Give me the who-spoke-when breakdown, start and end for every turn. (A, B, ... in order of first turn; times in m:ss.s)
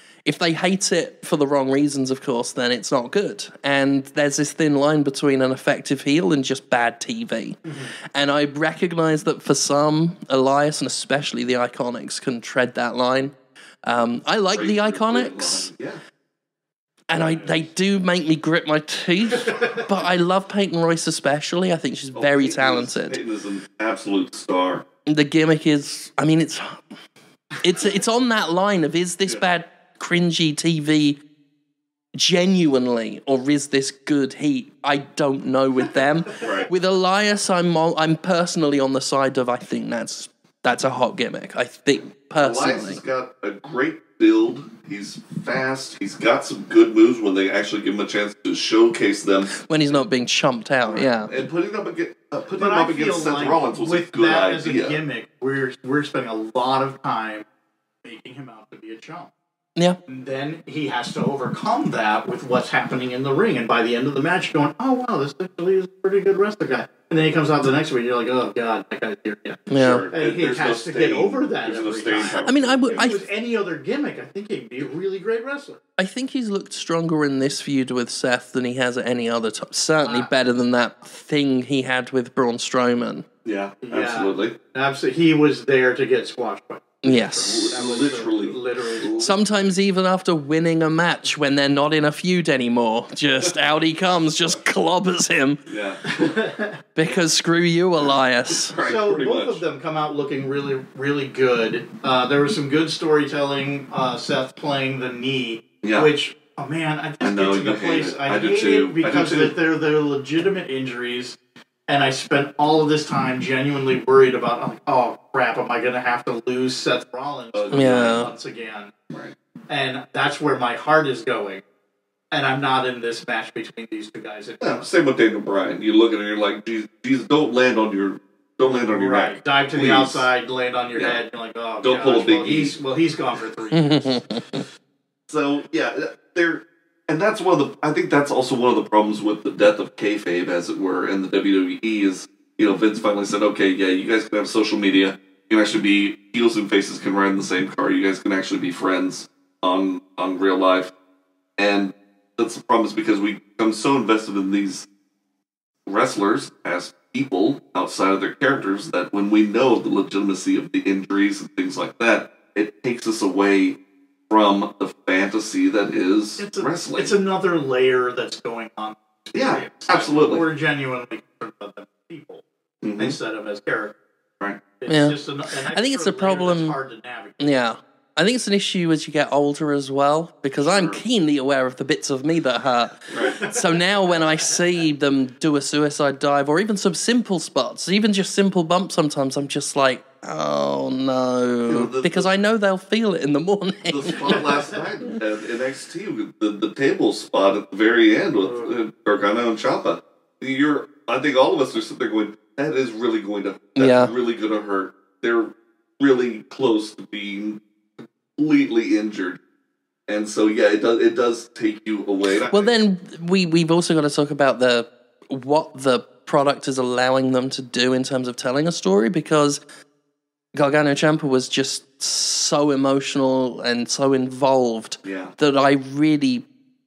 0:00.2-0:15.7 A
0:07.6-0:07.9 B
0:14.3-0:16.0 C
0:17.1-0:23.2 A
0:19.5-0:19.8 B
0:22.1-0:24.8 C
0:25.0-0:26.8 A
0:27.6-0:31.2 A
0:32.1-0:43.0 A
0:36.4-0:36.7 C
0:42.4-0:50.0 C
0:49.6-0:51.3 A
0:50.8-0:55.0 C
0:52.6-0:57.4 B
0:58.0-0:59.3 B
1:00.1-1:15.8 B
1:09.7-1:10.0 A
1:09.8-1:13.1 C
1:12.4-1:13.2 A
1:16.0-1:23.2 A
1:20.0-1:20.3 B
1:23.4-1:24.5 C
1:23.8-1:29.1 B
1:27.0-1:27.7 A
1:27.4-1:29.4 C
1:29.2-1:35.6 A
1:35.7-1:36.4 C
1:36.1-1:36.8 B
1:37.0-1:38.7 A
1:38.0-1:39.6 C
1:38.8-1:51.4 B
1:45.8-1:46.1 C
1:47.2-1:49.5 C
1:51.9-1:58.9 B
1:57.5-1:58.3 C
1:57.7-1:58.3 A
1:59.7-2:01.6 B
2:02.3-2:04.8 B
2:04.6-2:10.3 C
2:08.6-2:14.2 B
2:11.8-2:12.7 C
2:13.7-2:14.6 A
2:15.3-2:30.9 C
2:31.6-2:34.8 C
2:35.8-2:43.8 C
2:44.3-2:47.1 C
2:46.4-2:52.4 B
2:49.3-2:50.4 C
2:52.8-2:53.2 C
2:53.0-2:53.9 B
2:54.8-2:57.5 B
2:54.9-2:55.2 A
2:55.7-2:56.8 A
2:57.4-3:14.5 A
3:00.6-3:01.0 C
3:03.1-3:03.4 C
3:03.1-3:04.5 B
3:11.7-3:12.4 C
3:13.9-3:29.4 C
3:18.4-3:18.8 B
3:23.8-3:24.1 A
3:30.1-3:32.7 C
3:32.5-3:39.6 A
3:40.5-3:46.4 A
3:45.0-3:45.3 C